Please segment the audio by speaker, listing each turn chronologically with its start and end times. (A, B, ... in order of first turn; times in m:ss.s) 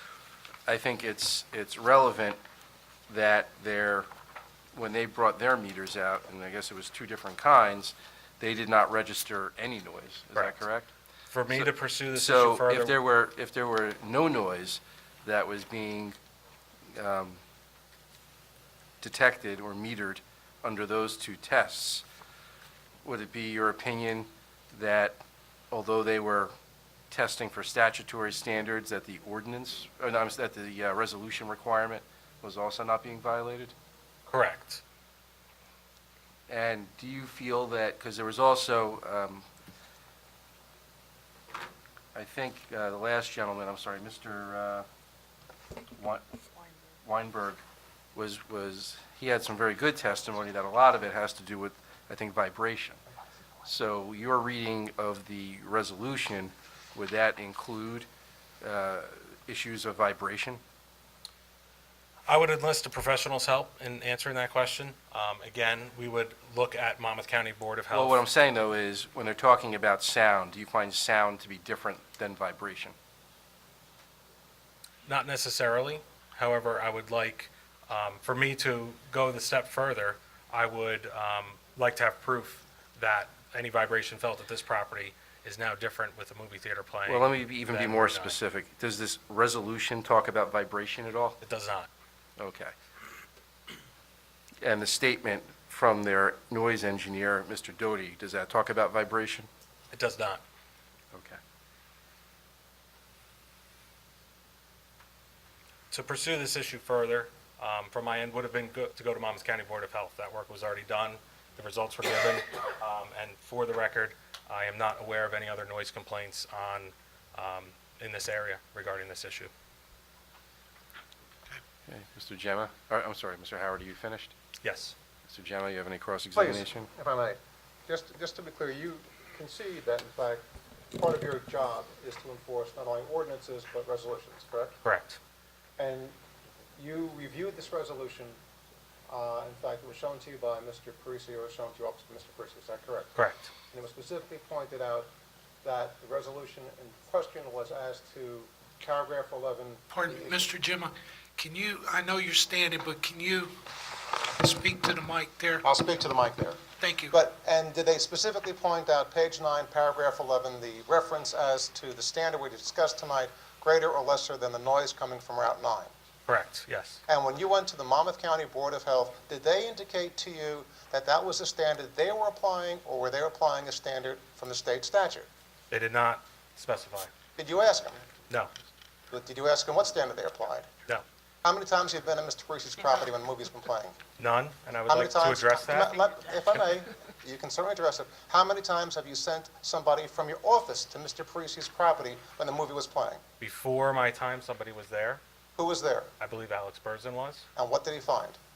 0:00.7-0:02.4 A
0:03.1-0:04.1 A
0:04.7-0:10.9 A
0:11.3-0:13.0 B
0:11.5-0:16.2 A
0:16.9-0:17.4 A
0:19.0-0:22.0 A
0:23.0-0:25.2 A
0:25.7-0:26.5 A
0:27.1-0:33.7 A
0:34.3-0:34.8 B
0:36.5-0:39.4 A
0:42.1-0:44.8 A
0:46.0-0:47.6 A
0:48.1-0:53.0 A
0:53.6-0:58.1 A
0:58.6-1:00.6 A
1:02.3-1:08.2 B
1:07.9-1:12.9 A
1:15.0-1:28.4 B
1:27.1-1:31.4 A
1:31.4-1:31.9 B
1:32.4-1:32.7 A
1:34.6-1:39.5 A
1:39.9-1:40.4 B
1:41.1-1:41.4 A
1:45.9-1:59.5 B
2:01.9-2:04.3 A
2:04.6-2:04.9 B
2:05.3-2:06.9 A
2:06.3-2:10.4 C
2:10.9-2:14.8 C
2:14.8-2:15.2 B
2:15.8-2:16.2 C
2:16.8-2:18.4 C
2:19.1-2:23.2 C
2:23.2-2:23.5 B
2:23.7-2:25.1 C
2:25.6-2:30.5 C
2:29.9-2:33.6 D
2:34.3-2:35.6 D
2:35.6-2:45.9 C
2:36.8-2:37.1 D
2:46.2-2:47.0 B
2:47.1-2:55.3 C
2:55.7-2:57.1 B
2:57.4-2:58.1 C
2:59.1-3:00.7 C
3:01.4-3:04.0 C
3:04.2-3:06.0 B
3:04.9-3:13.2 C
3:13.4-3:15.2 B
3:15.6-3:16.1 C
3:16.2-3:17.5 B
3:17.6-3:18.4 C